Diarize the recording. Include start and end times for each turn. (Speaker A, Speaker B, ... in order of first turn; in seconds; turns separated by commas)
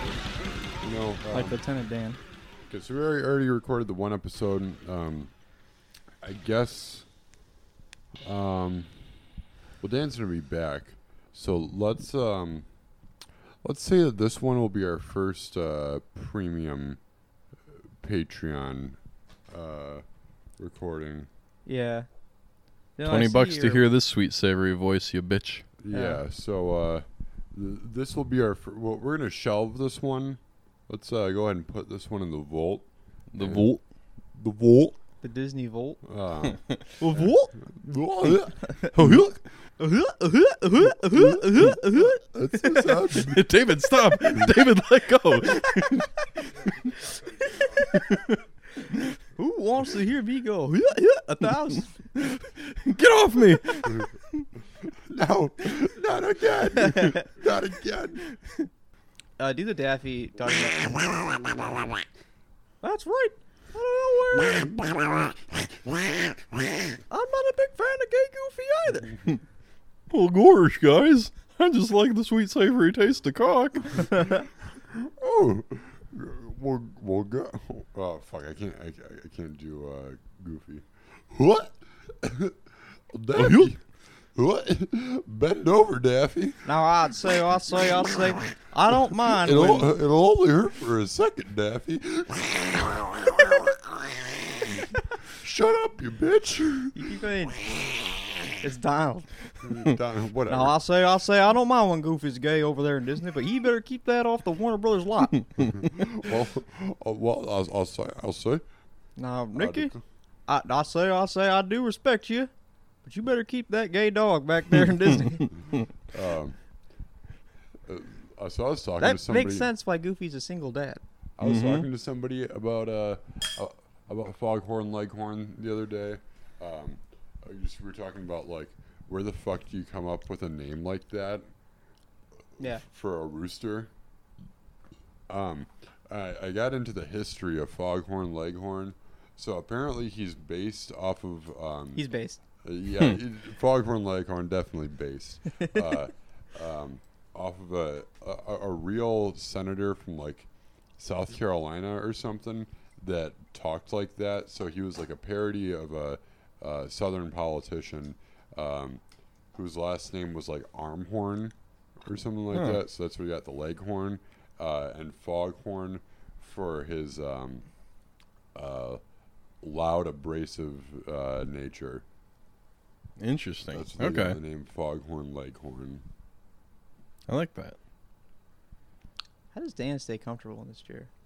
Speaker A: 0.8-1.6, Speaker B: 1.3-2.2, Speaker A: 2.7-5.3, Speaker A: 6.2-7.1, Speaker A: 8.2-8.9, Speaker A: 9.8-12.7, Speaker A: 13.6-17.0, Speaker A: 18.0-19.0, Speaker A: 19.5-20.0, Speaker A: 20.6-21.3, Speaker B: 21.7-22.1, Speaker B: 23.0-23.9, Speaker C: 23.1-25.7, Speaker A: 25.8-33.7, Speaker B: 25.9-26.2, Speaker C: 33.3-33.8, Speaker A: 34.3-35.0, Speaker B: 35.2-36.0, Speaker A: 36.0-39.4, Speaker B: 37.0-37.5, Speaker C: 39.0-39.2, Speaker B: 39.8-42.2, Speaker A: 40.8-43.4, Speaker C: 43.0-46.1, Speaker C: 46.6-46.9, Speaker B: 47.4-47.9, Speaker C: 47.9-48.4, Speaker B: 49.4-51.9, Speaker C: 52.1-54.4, Speaker A: 54.8-58.2, Speaker B: 56.9-57.2, Speaker B: 59.4-61.1, Speaker B: 62.8-64.8, Speaker B: 67.1-69.2, Speaker C: 70.1-74.3, Speaker A: 74.9-82.6, Speaker A: 83.1-83.8, Speaker C: 83.4-83.7, Speaker A: 84.3-86.7, Speaker B: 86.6-89.9, Speaker A: 89.3-97.1, Speaker B: 96.9-97.7, Speaker A: 97.8-98.2, Speaker B: 98.6-99.3, Speaker A: 99.6-100.8, Speaker B: 100.5-105.4, Speaker A: 105.7-108.6, Speaker B: 109.2-109.9, Speaker A: 109.5-110.0, Speaker B: 110.5-112.5, Speaker B: 113.0-115.5, Speaker A: 116.1-116.6, Speaker A: 117.9-119.7, Speaker B: 119.0-121.0, Speaker A: 121.4-131.5, Speaker C: 121.4-121.9, Speaker A: 132.6-133.9, Speaker A: 135.3-142.0, Speaker B: 142.0-142.4, Speaker A: 142.6-159.0, Speaker A: 159.6-167.7, Speaker C: 162.5-162.8, Speaker A: 168.6-169.0, Speaker A: 169.6-172.0, Speaker C: 173.2-174.4, Speaker A: 173.7-176.1, Speaker C: 177.3-177.8, Speaker B: 179.5-181.1